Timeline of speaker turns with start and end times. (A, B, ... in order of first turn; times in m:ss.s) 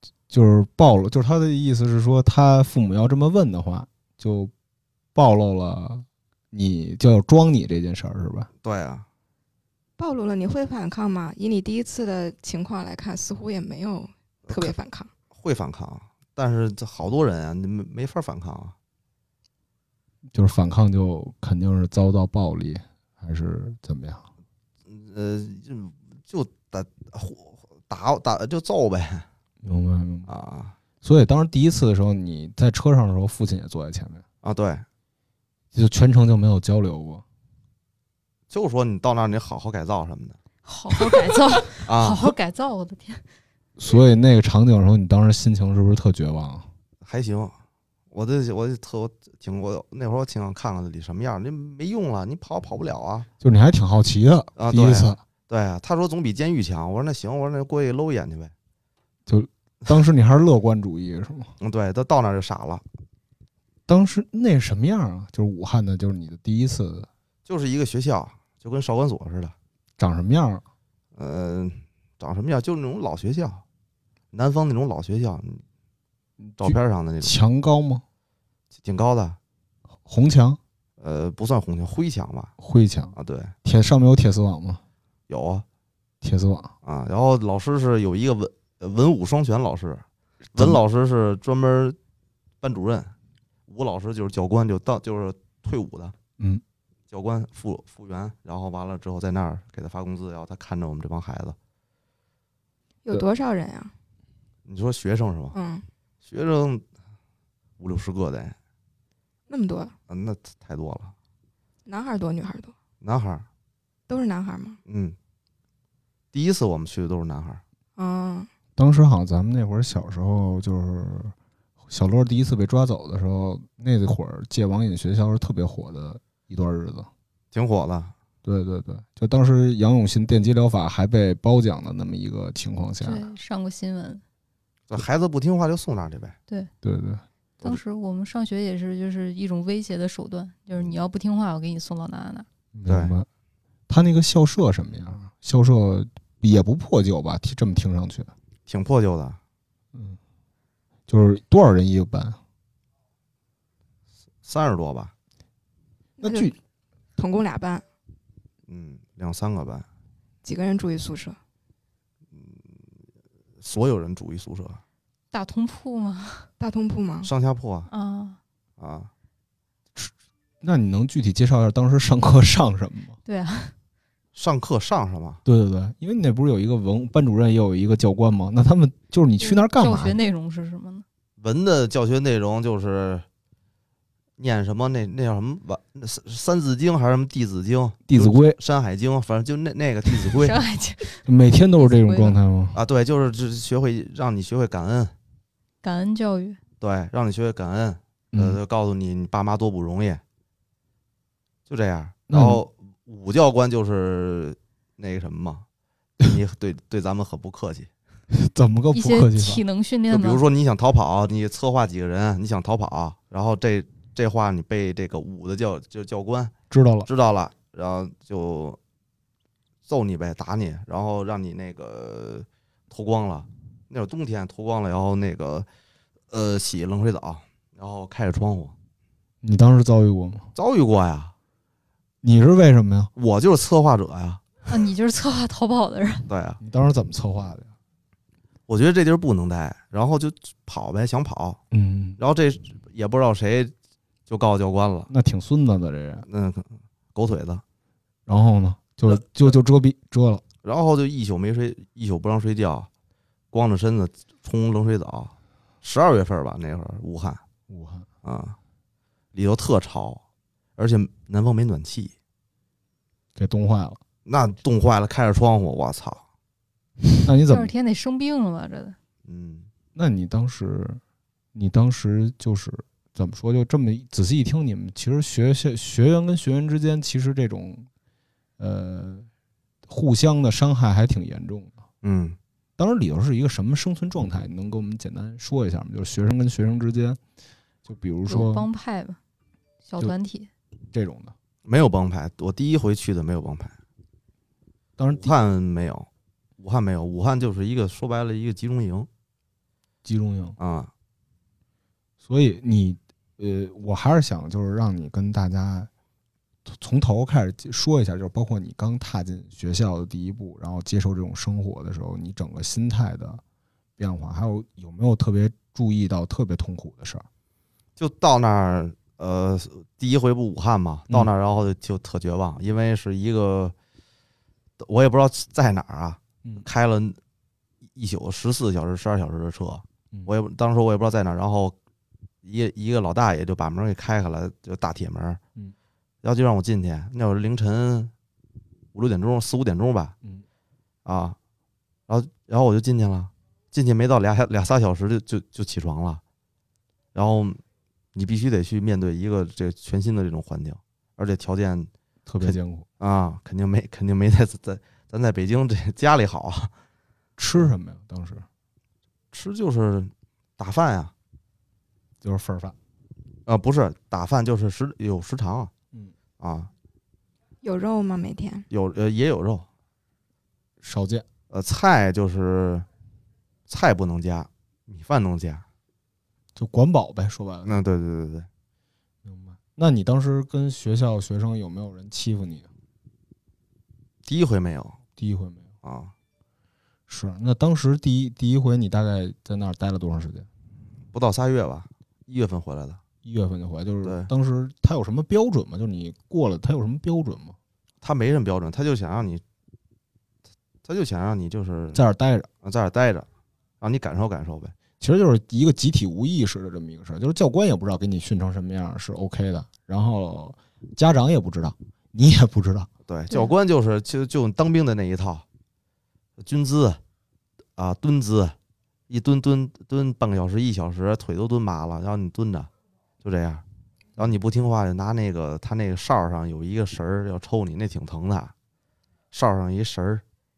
0:00.3-0:04.5 A
0:05.1-0:08.5 A
0:08.6-0:09.0 B
0:10.0-0:15.1 C
0:14.5-0:14.7 B
0:15.3-0:18.7 B
0:20.3-0:24.2 A
0:24.9-0:29.2 B
0:29.6-0:30.3 A
0:30.3-0:30.7 B
0:31.0-0:34.2 A
0:34.4-0:34.8 B
0:35.7-0:37.2 A
0:38.5-0:40.4 B
0:40.6-0:43.3 D
0:41.8-0:42.3 B
0:43.8-0:46.7 A
0:47.0-0:47.5 B
0:48.1-0:53.3 B
0:53.4-0:55.2 A
0:54.6-0:58.5 B
0:59.3-1:01.5 A
1:01.6-1:02.8 B
1:03.9-1:07.1 A
1:07.4-1:09.5 B
1:10.0-1:10.6 A
1:11.2-1:13.6 B
1:14.3-1:15.6 B
1:16.4-1:18.0 A
1:16.6-1:17.3 B
1:18.8-1:19.4 B
1:20.0-1:20.6 A
1:21.0-1:22.5 B
1:22.6-1:24.8 A
1:23.2-1:23.5 B
1:25.3-1:25.6 B
1:26.2-1:26.7 A
1:26.8-1:30.0 B
1:30.5-1:32.0 B
1:32.6-1:33.1 B
1:33.7-1:36.1 B
1:37.1-1:41.6 B
1:43.0-1:43.9 C
1:44.6-1:45.5 B
1:45.5-1:45.8 C
1:46.2-1:46.8 B
1:47.8-1:48.6 B
1:49.5-1:49.9 C
1:50.1-1:51.1 B
1:51.8-1:52.7 C
1:53.0-1:53.4 B
1:54.1-1:54.8 C
1:54.9-1:55.2 B
1:56.3-1:57.6 B
1:58.0-1:58.5 C
1:58.8-2:01.3 A
2:01.9-2:07.1 A
2:07.5-2:08.1 B
2:08.4-2:13.3 A
2:13.0-2:14.2 D
2:14.9-2:16.4 B
2:16.8-2:17.2 A
2:17.6-2:22.5 D
2:22.7-2:23.3 A
2:22.9-2:23.1 B
2:23.9-2:28.3 A
2:28.7-2:29.4 B
2:29.9-2:30.2 A
2:31.1-2:32.4 A
2:34.4-2:35.1 B
2:36.2-2:36.5 C
2:36.2-2:36.5 A
2:37.2-2:37.8 C
2:38.7-2:39.8 B
2:40.4-2:41.4 C
2:43.6-2:44.8 B
2:45.3-2:46.5 D
2:46.6-2:47.3 C
2:47.2-2:47.9 B
2:47.9-2:48.4 D
2:48.8-2:49.1 B
2:50.0-2:53.2 A
2:53.2-2:53.7 D
2:54.3-2:55.4 B
2:55.4-3:00.2 A
2:59.4-3:01.0 D
3:01.4-3:03.2 B
3:04.4-3:10.6 B
3:08.0-3:08.6 A
3:10.1-3:11.2 D
3:11.2-3:12.8 A
3:11.8-3:12.4 D
3:12.7-3:15.1 B
3:15.8-3:16.6 D
3:16.8-3:20.2 B
3:18.3-3:18.6 A
3:21.7-3:25.6 B
3:22.3-3:22.6 A
3:26.2-3:27.9 B
3:28.3-3:29.6 A
3:28.9-3:30.4 D
3:30.1-3:36.5 B
3:36.7-3:37.1 A
3:37.0-3:38.8 B
3:39.9-3:45.7 B
3:46.3-3:48.7 B
3:49.4-3:50.5 A
3:50.5-3:51.3 B
3:52.2-3:53.1 A
3:53.2-3:54.4 B
3:54.7-3:56.3 D
3:56.3-3:56.6 B
3:56.6-3:57.7 A
3:58.7-4:01.6 B
4:01.7-4:02.2 A
4:02.2-4:03.7 B
4:04.3-4:05.1 B
4:05.1-4:06.2 A
4:06.3-4:07.6 B
4:08.3-4:10.4 A
4:10.6-4:12.9 B
4:13.5-4:17.4 B
4:17.7-4:18.1 A
4:18.2-4:18.6 B
4:19.3-4:20.2 B
4:20.8-4:22.1 B
4:23.4-4:24.0 A
4:24.2-4:26.2 B
4:27.2-4:27.7 A
4:27.5-4:29.0 D
4:29.3-4:29.7 B
4:29.9-4:31.0 A
4:31.5-4:37.9 A
4:38.6-4:39.3 A
4:39.8-4:41.7 A
4:42.0-4:42.4 B
4:42.8-4:47.2 A
4:47.8-4:48.7 A
4:48.3-4:49.2 D
4:49.8-4:50.5 D
4:50.9-4:51.3 A
4:51.6-4:53.8 B
4:55.0-4:55.3 A
4:55.1-4:59.1 B
5:00.0-5:00.6 A
5:00.6-5:00.9 B
5:02.2-5:05.9 A
5:06.6-5:13.4 A
5:14.0-5:17.2 A
5:18.0-5:23.7 B
5:24.8-5:27.2 B
5:27.9-5:31.7 B
5:32.4-5:35.4 B
5:36.2-5:38.1 B
5:38.9-5:40.1 B
5:41.0-5:41.4 B
5:42.1-5:46.2 B
5:47.1-5:47.6 B
5:48.1-5:51.9 B
5:52.2-5:52.8 A
5:52.4-5:56.7 B
5:57.4-5:58.4 A
5:59.3-6:01.1 B
6:02.2-6:02.8 A
6:03.5-6:05.7 B
6:06.4-6:06.7 B
6:07.6-6:08.6 C
6:08.7-6:09.7 B
6:10.8-6:11.2 A
6:11.5-6:12.9 B
6:13.7-6:15.6 B
6:16.6-6:17.8 A
6:17.6-6:18.5 B
6:19.2-6:22.7 A
6:24.2-6:25.0 B
6:25.2-6:25.7 A
6:25.8-6:26.1 B
6:27.1-6:30.5 A
6:31.1-6:33.0 B
6:33.2-6:37.6 A
6:34.0-6:34.3 B
6:38.0-6:39.4 B
6:40.8-6:42.0 B
6:41.9-6:42.5 A
6:42.6-6:43.3 B
6:43.8-6:44.7 B
6:45.0-6:52.9 A
6:53.1-6:55.4 B
6:56.4-6:57.0 B
6:57.8-6:58.6 B
6:59.1-7:02.7 B
7:03.2-7:03.6 B
7:04.2-7:08.5 B
7:09.3-7:10.2 B